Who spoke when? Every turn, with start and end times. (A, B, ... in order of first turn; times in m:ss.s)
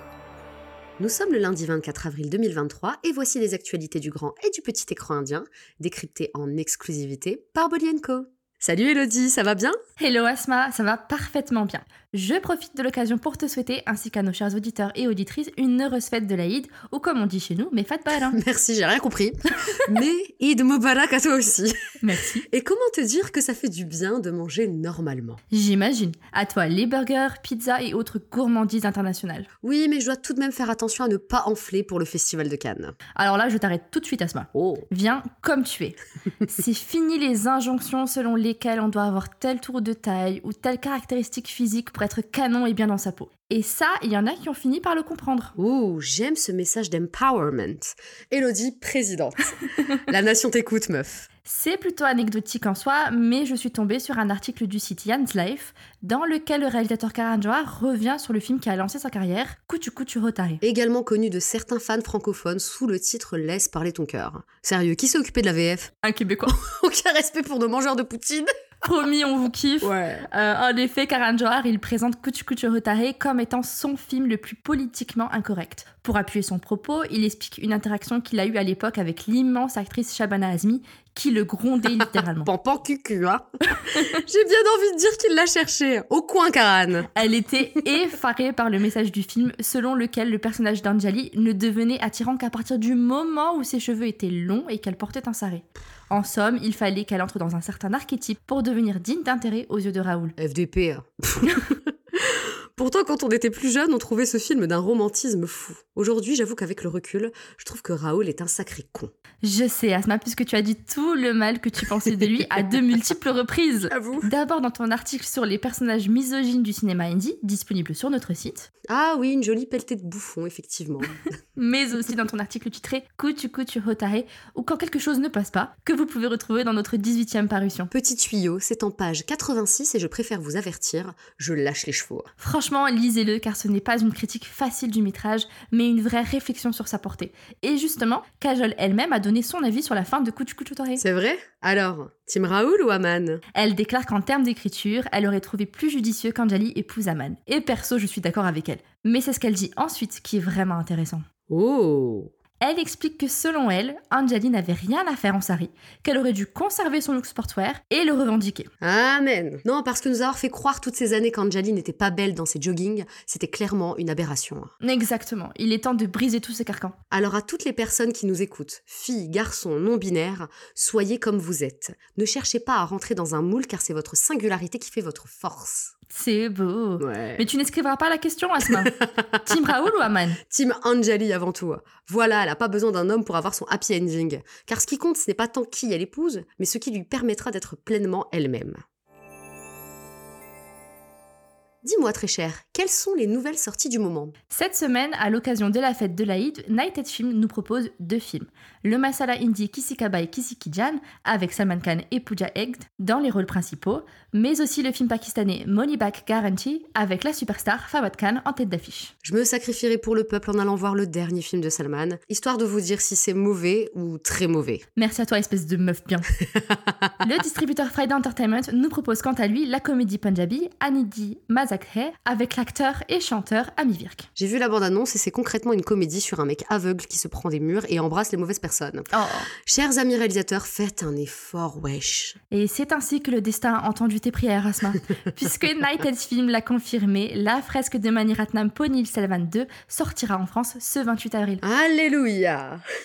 0:01.0-0:09.8 A
0:10.0-0:18.4 B
0:18.3-0:21.8 A
0:22.0-0:22.5 B
0:22.5-0:25.4 A
0:25.5-0:29.5 B
0:29.6-0:33.0 A
0:33.2-0:45.5 B
0:34.6-0:34.9 A
0:45.6-0:51.3 A
0:51.4-1:00.6 B
1:00.6-1:05.9 A
1:06.0-1:06.6 B
1:06.5-1:08.5 A
1:08.8-1:22.5 B
1:09.8-1:10.3 A
1:22.4-1:27.1 A
1:23.8-1:24.2 B
1:27.1-1:40.4 B
1:40.4-1:49.1 A
1:49.4-1:58.7 B
1:53.9-1:54.3 A
1:58.9-2:01.2 A
2:01.6-2:07.9 B
2:07.9-2:12.3 A
2:12.4-2:21.0 B
2:21.0-2:23.4 A
2:23.5-2:31.2 B
2:31.5-2:32.3 A
2:32.6-2:38.7 B
2:38.8-2:44.7 A
2:44.8-2:47.0 B
2:47.1-2:55.9 A
2:56.1-3:00.4 B
2:57.0-2:57.4 A
2:58.7-2:59.4 A
3:00.5-3:08.8 A
3:11.8-3:14.4 A
3:14.5-3:29.1 B
3:29.2-3:34.8 A
3:35.0-3:36.3 B
3:37.2-3:44.3 B
3:44.4-3:49.1 A
3:49.1-3:49.5 B
3:49.6-3:52.4 A
3:52.5-4:01.6 B
4:01.6-4:02.8 A